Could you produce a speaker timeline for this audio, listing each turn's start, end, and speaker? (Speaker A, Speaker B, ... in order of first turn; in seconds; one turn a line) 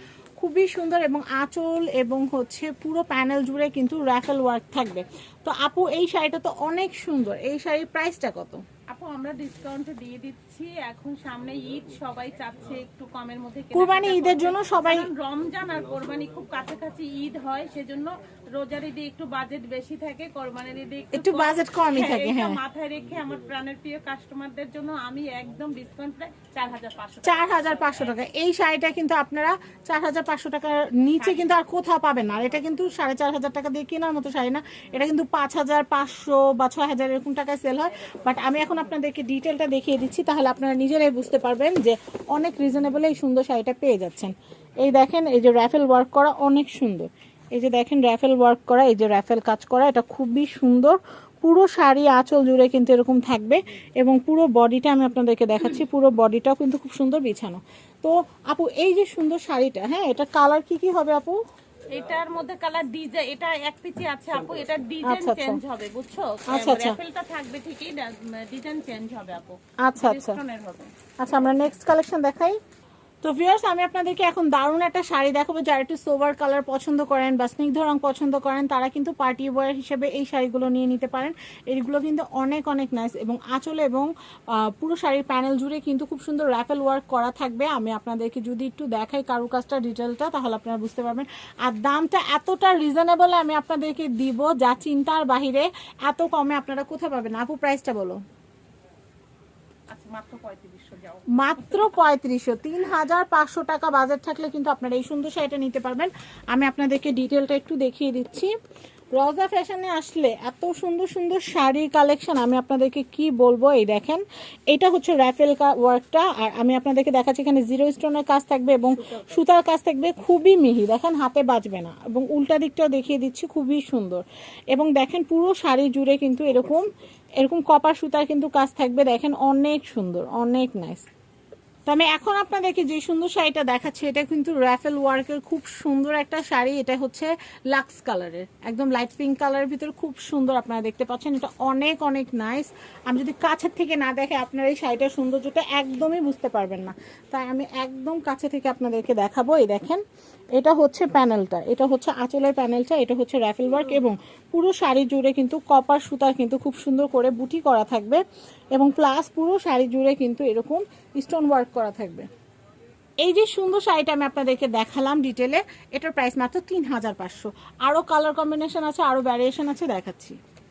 Speaker A: 0.4-8.6
Speaker B: 8.9-28.2
Speaker A: 13.7-15.1
Speaker A: 21.1-22.6
Speaker A: 27.2-61.4
Speaker B: 31.2-31.6
Speaker B: 61.9-70.9
Speaker A: 65.0-65.6
Speaker A: 66.5-67.0
Speaker A: 69.8-70.4
Speaker A: 71.2-72.6
Speaker A: 73.2-98.2
Speaker B: 99.9-102.0
Speaker A: 101.3-108.5
Speaker A: 109.2-126.9
Speaker A: 127.4-131.1
Speaker A: 131.9-150.0
Speaker A: 150.6-158.2
Speaker A: 158.8-162.3
Speaker A: 163.2-170.4